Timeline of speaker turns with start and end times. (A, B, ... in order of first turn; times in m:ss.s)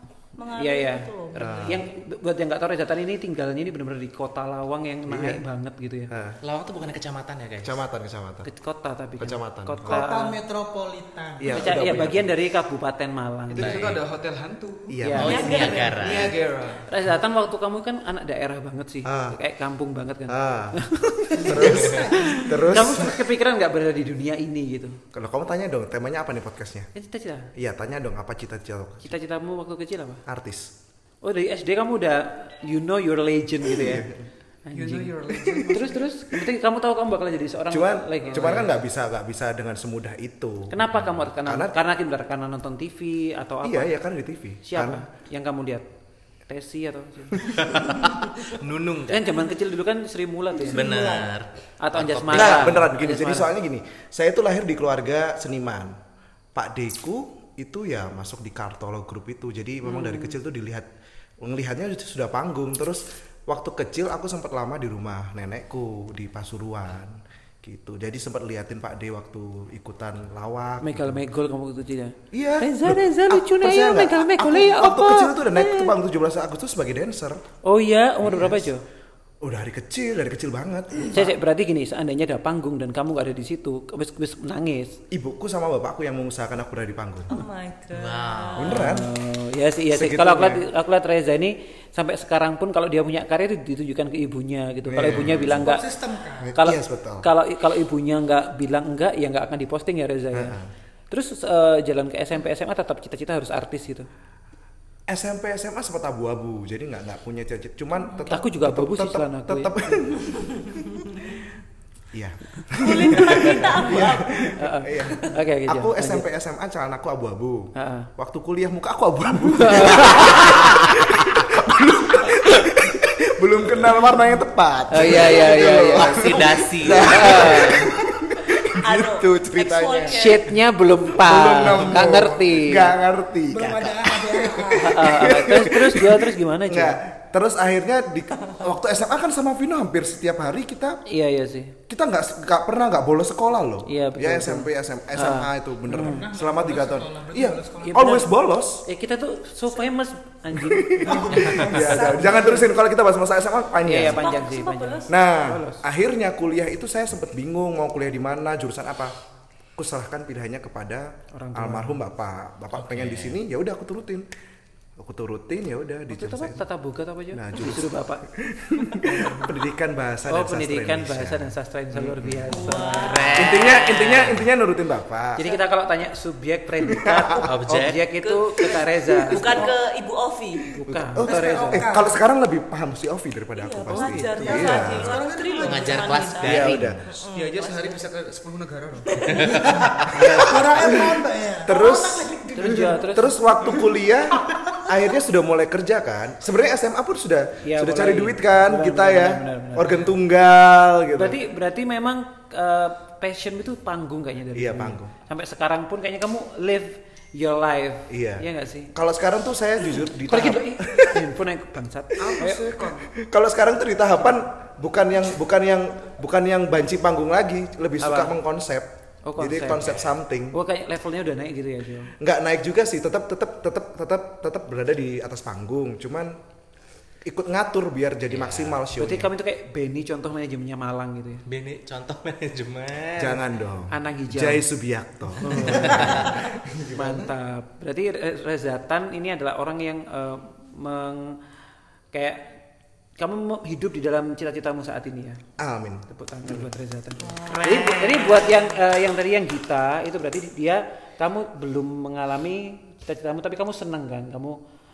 0:00.4-0:01.8 A
0:00.6-0:06.1 B
0:01.4-0:01.8 C
0:05.1-0:05.4 C
0:06.1-0:06.4 C
0:06.4-0:07.7 D
0:07.6-0:08.5 C
0:08.4-0:10.4 B
0:09.2-0:10.0 C
0:09.8-0:11.7 E
0:11.4-0:12.3 C
0:11.5-0:13.9 B
0:13.5-0:15.0 F
0:13.6-0:14.0 D
0:14.9-0:15.7 C
0:15.0-0:15.4 B
0:15.1-0:16.3 D
0:15.2-0:16.2 A
0:15.5-0:16.9 F
0:16.8-0:25.0 B
0:19.0-0:19.4 C
0:20.3-0:20.8 C
0:21.3-0:22.7 E
0:21.3-0:23.2 C
0:25.1-0:26.9 C
0:26.9-0:27.5 B
0:27.5-0:29.1 C
0:29.0-0:30.2 B
0:30.2-0:30.7 C
0:31.2-0:35.2 B
0:33.7-0:34.1 C
0:34.7-0:36.1 F
0:35.7-0:38.7 B
0:37.7-0:40.8 C
0:38.3-0:38.6 F
0:40.7-0:43.9 B
0:41.4-0:41.8 C
0:43.6-0:45.0 C
0:44.6-0:45.9 B
0:46.5-0:47.5 B
0:47.5-0:49.3 D
0:49.1-0:50.9 B
0:50.6-0:51.3 E
0:50.7-0:52.8 D
0:51.8-0:53.5 B
0:52.3-0:56.0 C
0:56.5-1:00.9 C
0:59.8-1:00.3 B
1:01.4-1:11.2 C
1:10.8-1:15.9 B
1:12.3-1:17.4 C
1:17.6-1:18.8 B
1:18.2-1:18.7 C
1:19.4-1:21.3 C
1:21.1-1:25.0 B
1:25.1-1:27.4 C
1:27.3-1:28.8 A
1:27.9-1:28.9 D
1:28.6-1:29.1 C
1:28.7-1:35.9 B
1:29.9-1:30.6 C
1:34.9-1:35.6 C
1:35.4-1:36.5 E
1:36.4-1:37.2 C
1:36.6-1:40.6 B
1:40.3-1:40.7 C
1:41.1-1:44.1 B
1:45.1-1:51.0 C
1:48.3-1:49.8 B
1:52.1-2:10.2 C
1:52.7-1:54.6 A
1:54.6-1:56.2 B
1:57.7-1:58.1 B
1:59.5-2:00.6 B
2:04.9-2:06.3 B
2:05.9-2:07.7 D
2:06.9-2:07.9 B
2:08.8-2:10.5 A
2:10.1-2:13.0 B
2:11.1-2:21.0 C
2:13.5-2:15.2 E
2:14.7-2:17.0 B
2:21.1-2:21.8 B
2:21.9-2:28.8 C
2:23.9-2:26.3 B
2:25.9-2:28.3 E
2:27.8-2:28.3 B
2:28.8-2:32.5 B
2:30.5-2:34.3 C
2:31.0-2:32.7 E
2:33.8-2:35.8 B
2:34.0-2:35.2 A
2:35.1-2:39.2 C
2:39.8-2:44.3 C
2:41.3-2:42.0 B
2:42.7-2:43.4 D
2:45.0-2:46.6 C
2:46.1-2:48.2 B
2:47.3-2:52.6 C
2:48.8-2:49.6 B
2:50.3-2:53.4 B
2:52.5-2:53.5 A
2:53.0-2:54.5 D
2:53.3-2:55.4 C
2:55.4-2:59.7 B
2:56.9-2:57.5 C
2:57.4-2:58.0 D
2:58.2-3:00.7 A
3:00.8-3:01.9 B
3:00.8-3:05.2 C
3:01.2-3:02.2 E
3:03.6-3:08.0 A
3:04.3-3:06.6 E
3:05.6-3:07.0 D
3:06.4-3:07.2 C
3:07.3-3:09.2 F
3:09.2-3:09.9 D
3:09.3-3:13.0 E
3:10.0-3:21.4 C
3:10.1-3:10.6 B
3:12.5-3:13.4 B
3:13.6-3:14.9 E
3:17.6-3:20.1 B
3:21.1-3:28.9 B
3:24.5-3:25.1 C
3:28.1-3:31.3 C
3:30.2-3:32.7 B
3:32.2-3:33.1 F
3:32.2-3:32.4 C
3:33.1-3:40.6 C
3:38.0-3:38.4 B
3:39.2-3:42.1 B
3:42.2-3:46.4 C
3:47.2-3:49.3 C
3:48.3-3:48.8 D
3:49.0-3:51.4 B
3:51.5-3:53.4 D
3:53.2-3:57.3 C
3:53.9-3:54.7 B
3:55.4-4:01.4 B
3:55.8-3:56.3 D
4:02.1-4:02.6 B
4:03.2-4:05.4 B
4:05.6-4:06.7 C
4:06.1-4:14.6 B
4:07.3-4:08.7 A